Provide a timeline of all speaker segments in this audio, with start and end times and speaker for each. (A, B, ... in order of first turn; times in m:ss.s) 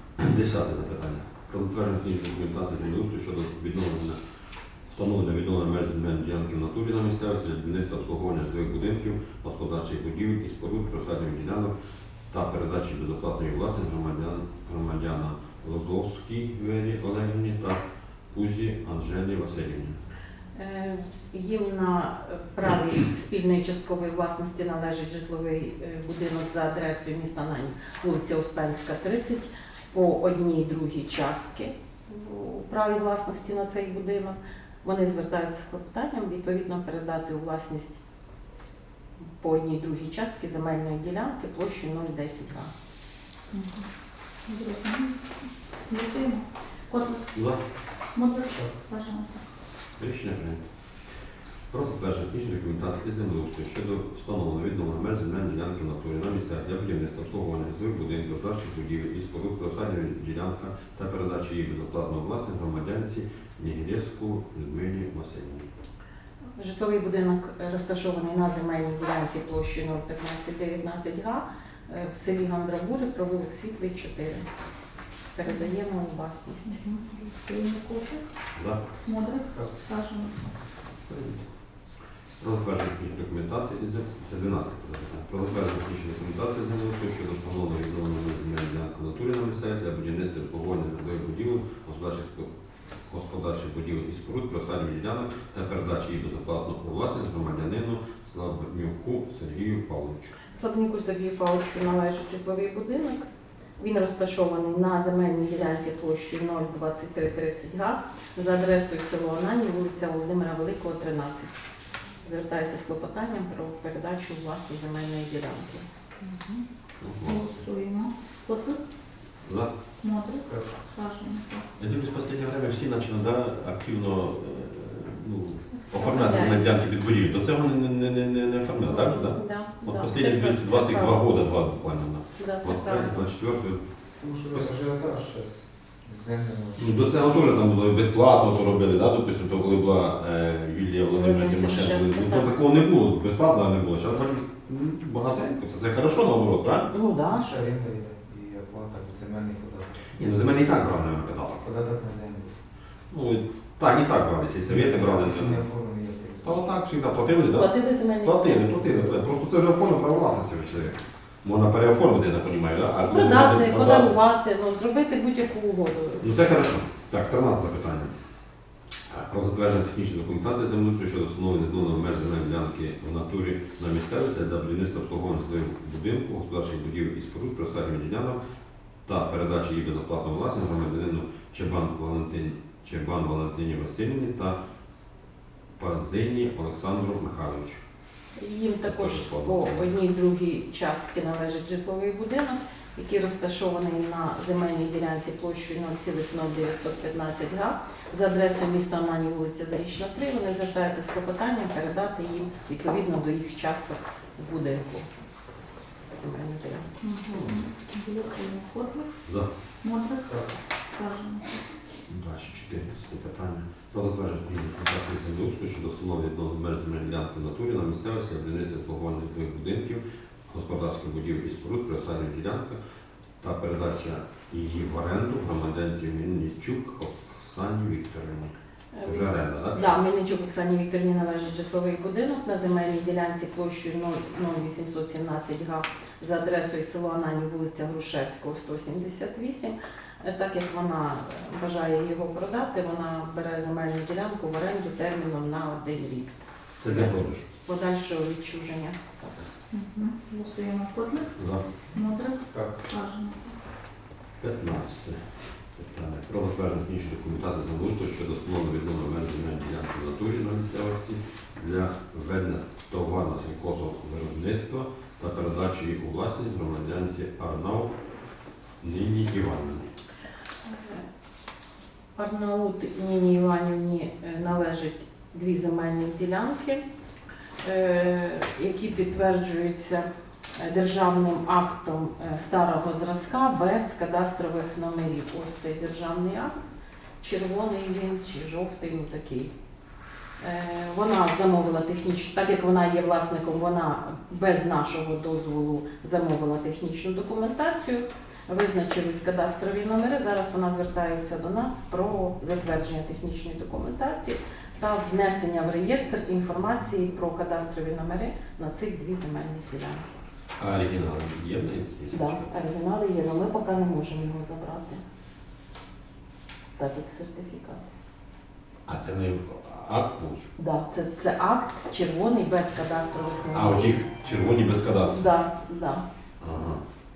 0:00.2-0:04.2 A
0:04.9-0:11.7 A
0:12.3-0:20.0 A
0:20.6-0:38.0 B
0:39.4-0:42.7 B
0:43.5-0:43.9 C
0:44.5-0:47.3 C
0:47.3-0:47.6 A
0:48.2-0:49.5 C
0:50.0-0:50.6 A
0:51.7-1:05.7 A
1:06.6-1:14.4 B
1:15.4-1:16.8 B
1:16.7-1:18.3 C
1:18.6-1:18.8 A
1:19.0-1:20.4 C
1:21.1-1:21.4 A
1:22.4-1:32.5 A
1:33.1-1:40.3 A
1:40.5-1:43.3 B
1:43.8-1:51.5 B
1:52.2-1:55.9 B
1:56.2-1:56.6 C
1:57.0-1:57.4 A
1:57.2-1:58.8 C
1:59.4-1:59.7 A
2:00.0-2:01.7 C
2:01.8-2:13.8 A
2:05.9-2:06.7 B
2:08.9-2:11.2 B
2:12.4-2:13.3 B
2:14.2-2:17.1 D
2:16.8-2:26.9 A
2:21.1-2:22.5 B
2:26.9-2:27.6 B
2:27.3-2:30.0 D
2:30.2-2:31.6 A
2:31.6-2:32.6 D
2:33.1-2:35.6 A
2:34.7-2:36.6 D
2:36.4-2:44.1 A
2:37.5-2:39.2 B
2:43.1-2:46.5 B
2:46.2-2:48.1 A
2:49.1-2:58.4 A
2:59.1-3:04.6 A
3:05.8-3:07.8 A
3:08.4-3:25.1 B
3:08.8-3:09.9 A
3:26.1-3:26.9 B
3:27.0-3:29.1 C
3:27.3-3:27.6 A
3:29.8-3:31.7 C
3:32.1-3:42.8 A
3:43.4-3:48.5 A
3:48.9-4:06.3 B
3:49.0-3:50.0 A
4:06.8-4:07.4 A
4:06.9-4:09.4 B
4:09.7-4:11.3 C
4:11.4-4:11.6 A
4:11.9-4:13.6 C
4:12.5-4:12.9 D
4:14.4-4:27.9 A
4:28.8-4:29.9 A
4:30.6-4:31.1 B
4:32.2-4:36.8 B
4:37.6-4:40.1 B
4:40.6-4:46.6 B
4:47.2-4:49.5 B
4:50.4-5:10.1 B
5:10.6-5:12.5 A
5:12.1-5:15.0 B
5:16.8-5:17.9 B
5:18.9-5:20.5 A
5:20.6-5:24.0 B
5:23.5-5:25.3 A
5:25.1-5:26.0 B
5:26.4-5:26.8 A